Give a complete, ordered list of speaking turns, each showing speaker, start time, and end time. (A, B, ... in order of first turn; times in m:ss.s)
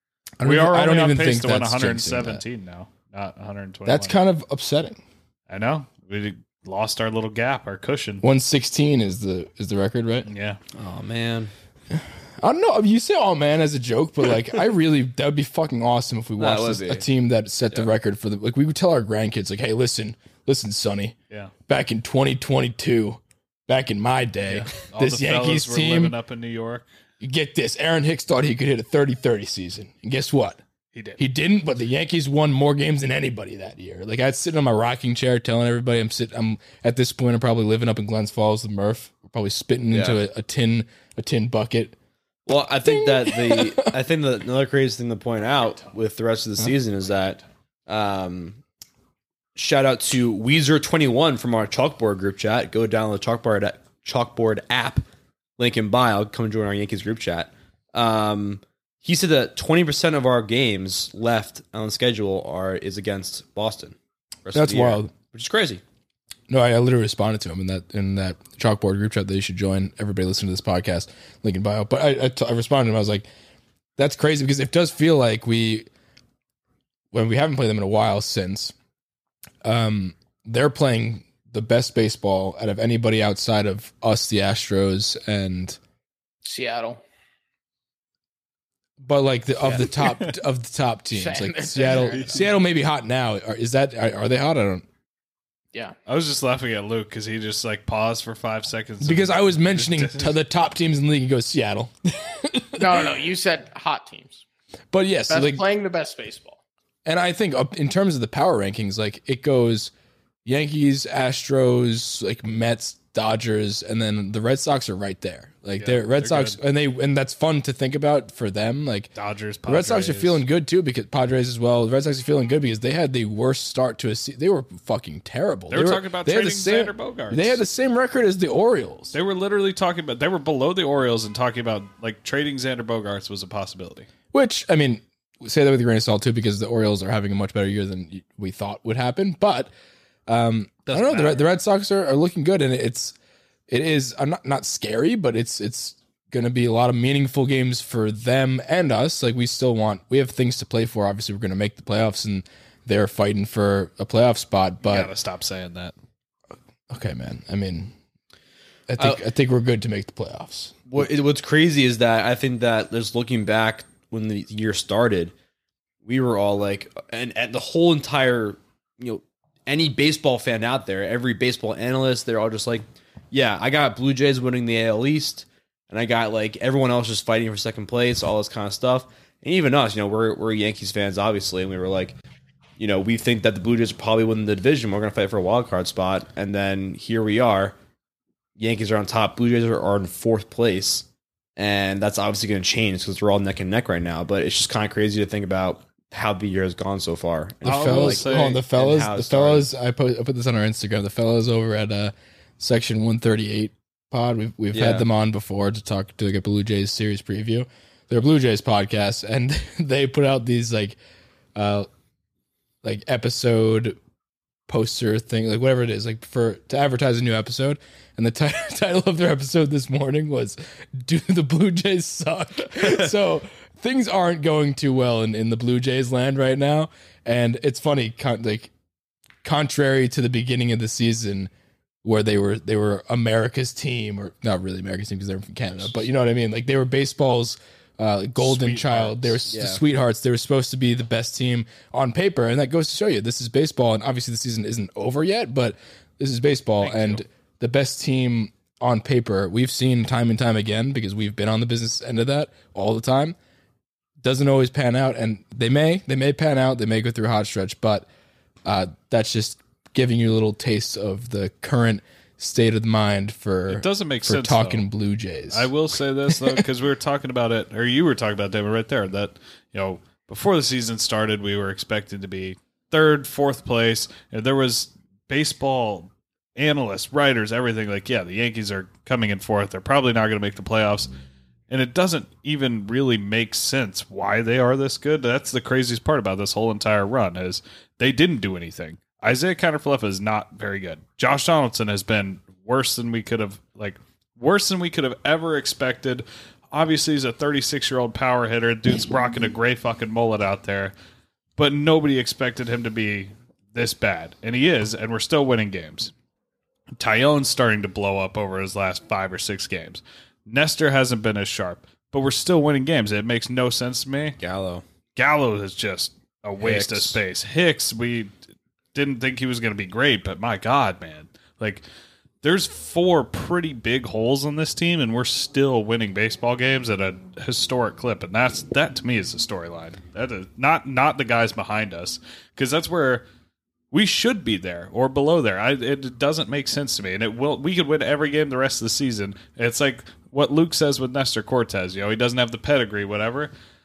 0:00.4-0:02.4 A
0:00.4-0:04.2 B
0:03.8-0:05.0 A
0:05.5-0:08.2 B
0:08.2-0:10.3 A
0:10.2-0:10.6 B
0:10.7-0:11.5 C
0:11.9-0:21.2 A
0:16.4-0:17.0 C
0:21.7-0:26.2 A
0:24.5-0:26.9 B
0:27.2-0:30.6 A
0:30.9-0:31.2 B
0:31.2-0:42.0 A
0:39.9-0:40.2 C
0:42.5-0:48.6 C
0:42.9-0:43.9 A
0:45.3-0:45.9 B
0:49.6-0:55.0 C
0:55.6-1:05.8 C
1:04.5-1:05.1 A
1:06.5-1:13.3 A
1:14.0-1:15.9 A
1:17.1-1:18.7 A
1:19.6-1:25.8 A
1:26.4-1:27.0 D
1:29.0-1:34.8 A
1:30.0-1:30.3 B
1:31.1-1:32.4 D
1:31.8-1:32.5 B
1:36.1-1:40.4 B
1:39.0-1:43.1 A
1:42.8-1:44.4 D
1:44.9-1:45.6 A
1:45.3-1:46.6 D
1:47.0-1:49.9 A
1:50.4-1:59.1 A
1:55.8-1:56.6 B
1:59.1-2:00.4 B
1:59.6-2:09.1 A
2:05.7-2:07.6 B
2:09.1-2:14.1 B
2:14.3-2:19.7 A
2:20.3-2:23.1 A
2:20.9-2:21.4 B
2:23.7-2:35.1 A
2:34.8-2:35.9 B
2:36.9-2:37.9 A
2:38.9-2:41.1 A
2:40.9-2:45.3 C
2:46.0-3:02.2 C
3:02.8-3:07.8 C
3:08.6-3:19.6 C
3:17.6-3:31.0 A
3:17.6-3:18.6 B
3:24.7-3:25.0 C
3:31.5-3:31.9 A
3:32.8-3:34.0 A
3:34.7-3:48.7 A
3:49.4-3:51.5 A
3:52.0-4:13.4 A
3:58.4-3:59.4 B
3:59.5-3:59.8 C
4:06.8-4:07.2 B
4:14.2-4:18.1 A
4:18.6-4:25.7 A
4:23.7-4:24.8 B
4:25.5-4:41.1 B
4:26.3-4:26.6 A
4:41.7-5:00.9 B
5:01.6-5:06.1 B
5:06.9-5:14.4 B
5:14.4-5:14.8 C
5:15.2-5:18.3 B
5:16.6-5:17.2 C
5:18.9-5:21.8 B
5:22.4-5:33.2 B
5:33.9-5:43.5 B